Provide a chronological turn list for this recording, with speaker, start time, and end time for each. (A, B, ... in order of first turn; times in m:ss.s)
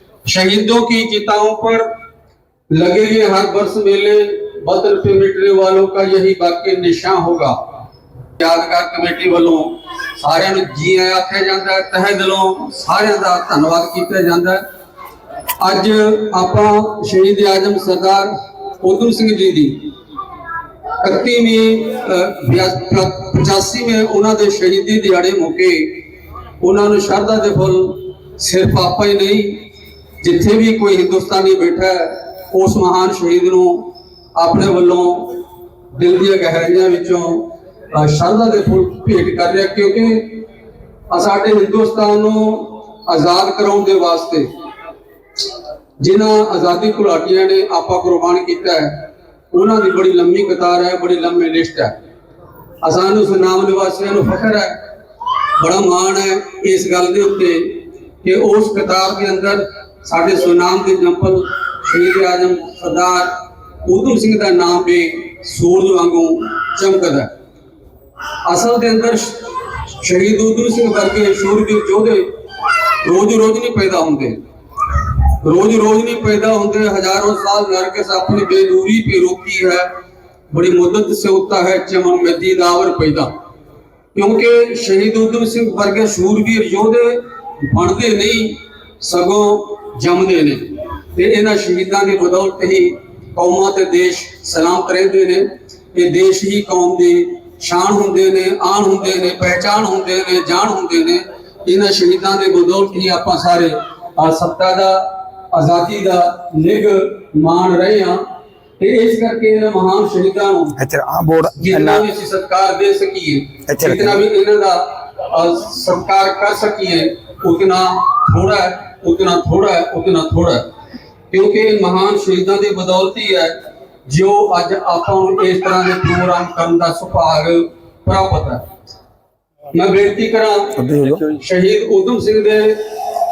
0:00.3-0:01.9 A
0:02.7-0:07.6 A
0:08.4-0:14.6 A
0:15.6-0:19.9 A
0:21.0-0:26.0 A
0:26.6-0:29.7 A
0:30.2-0:35.4 A
0:36.0-0:40.4 A
0:41.1-0:44.5 A
0:46.0-0:51.9 A
0:52.8-0:54.8 A
0:55.6-1:07.3 A
1:08.4-1:12.3 A
1:13.0-1:14.4 A
1:15.4-1:19.9 A
1:20.5-1:23.3 A
1:24.2-1:48.2 A
1:48.8-1:50.8 A
1:50.8-1:52.0 B
1:51.6-2:00.6 A
1:53.7-1:54.2 B
2:01.3-2:03.6 A
2:04.1-2:08.6 A
2:09.7-2:12.8 A
2:10.8-2:11.2 B